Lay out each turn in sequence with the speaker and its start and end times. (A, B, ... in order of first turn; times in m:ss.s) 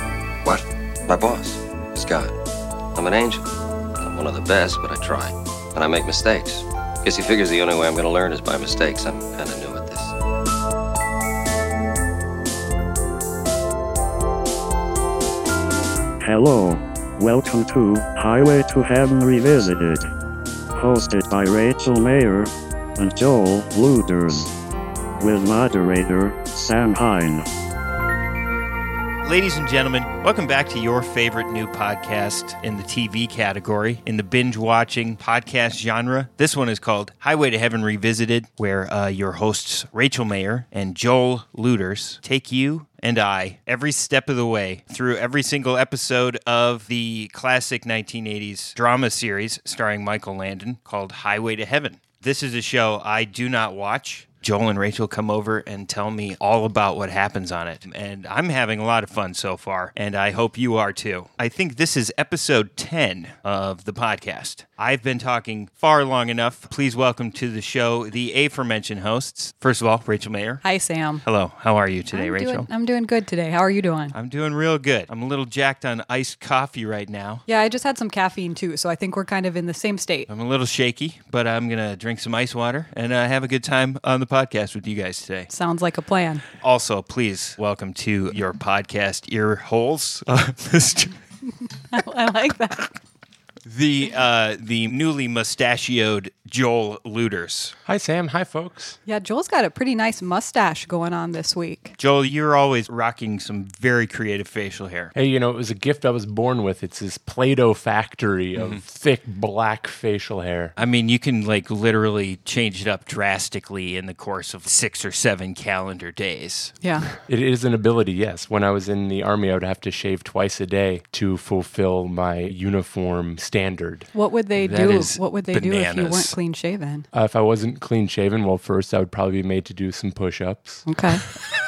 0:01.1-0:02.4 A
0:03.0-0:10.1 A
0:16.2-0:20.1 B
0:20.8-0:24.5 B
0:25.2-0:27.5 B
0:29.2-1:10.6 C
1:10.6-1:11.2 D
1:11.2-1:12.7 C
1:12.1-1:14.2 D
1:14.1-1:17.4 C
1:17.5-1:20.3 D
1:20.3-1:25.5 C
1:25.5-1:26.4 D
1:26.6-1:31.2 C
1:31.9-1:32.9 D
1:33.7-1:37.8 C
1:37.9-1:39.0 E
1:39.1-1:42.0 D
1:42.0-1:45.1 C
1:45.2-1:50.8 E
1:48.6-1:48.8 C
1:50.8-1:56.7 C
1:56.8-1:57.1 D
1:57.3-2:04.1 E
2:04.1-2:07.1 D
2:04.6-2:06.4 C
2:07.1-2:10.9 E
2:10.9-2:11.2 D